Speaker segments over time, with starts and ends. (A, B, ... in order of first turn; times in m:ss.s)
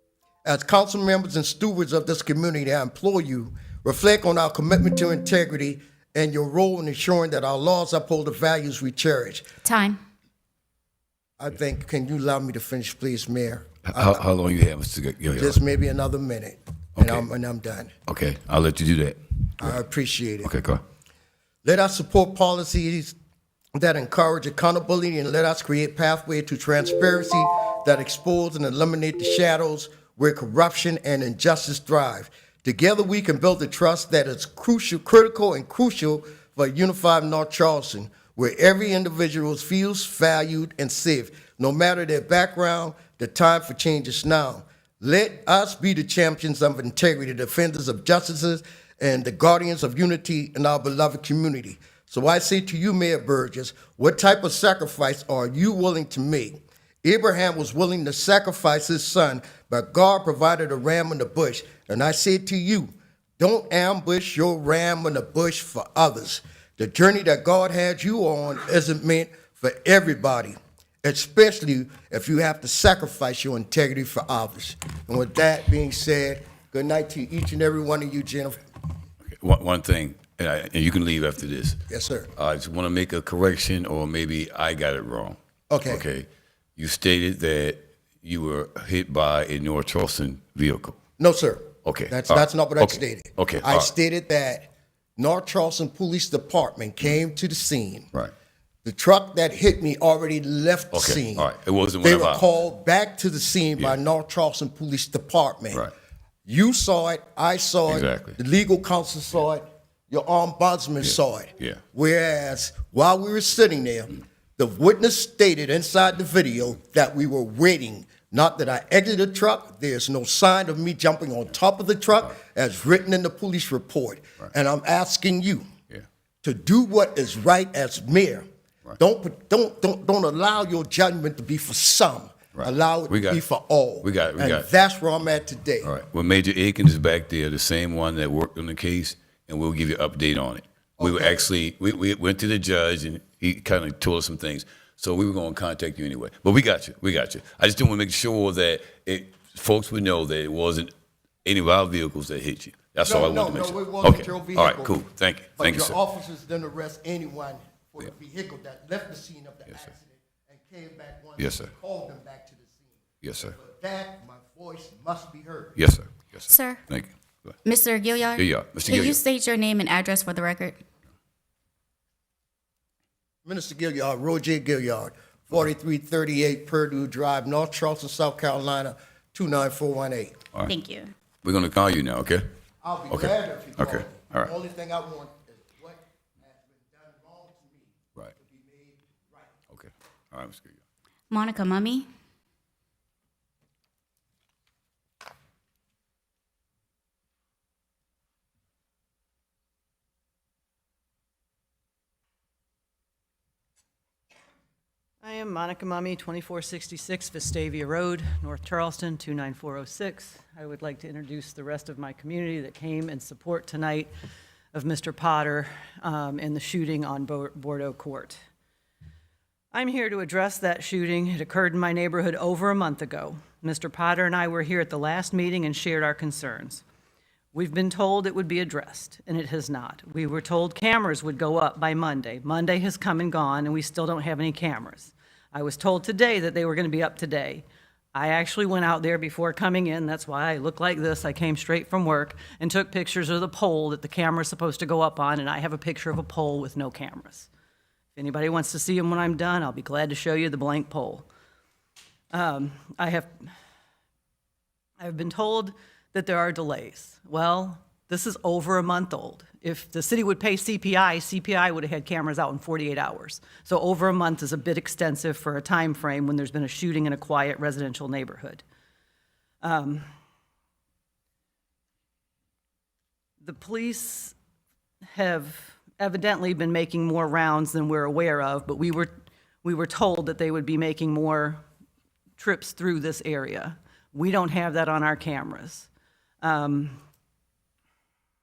0:00.4-0:09.5 A
0:09.6-0:10.0 B
0:11.4-0:14.2 A
0:13.8-0:15.6 C
0:15.4-0:17.9 A
0:17.0-0:17.2 C
0:18.0-0:19.8 C
0:19.6-0:20.5 A
0:20.4-0:20.8 C
0:21.6-0:23.2 A
0:23.7-1:18.6 A
1:19.2-1:21.8 C
1:21.9-1:22.3 A
1:22.3-1:31.0 C
1:25.7-1:26.0 A
1:31.2-1:38.1 A
1:31.8-1:33.9 C
1:38.8-1:41.5 A
1:40.9-1:42.5 C
1:42.0-1:45.8 A
1:46.4-2:05.6 A
1:47.9-1:48.4 C
1:51.0-1:51.8 C
2:06.4-2:08.4 A
2:09.0-2:15.9 A
2:12.6-2:13.4 C
2:14.0-2:14.7 C
2:15.8-2:30.9 C
2:21.0-2:21.4 A
2:31.4-2:36.0 C
2:33.0-2:35.0 A
2:35.6-2:43.0 A
2:41.4-2:41.7 C
2:43.2-2:43.6 C
2:43.5-2:45.8 A
2:45.8-2:47.6 C
2:46.5-2:46.8 B
2:47.6-2:50.8 B
2:48.4-2:49.2 C
2:53.4-3:00.4 A
3:00.7-3:01.1 B
3:01.4-3:02.5 C
3:02.8-3:09.5 A
3:03.1-3:04.5 C
3:09.7-3:10.8 C
3:11.3-3:12.0 B
3:25.2-3:34.1 D
3:34.7-3:38.4 D
3:39.7-3:46.8 D
3:47.5-4:07.5 D
4:08.2-4:11.3 D
4:12.3-4:13.3 D
4:15.0-4:28.6 D
4:29.6-4:30.1 D
4:33.4-4:34.3 D
4:35.1-4:39.1 D
4:39.6-4:41.6 D
4:42.4-4:45.9 D
4:46.4-4:47.0 D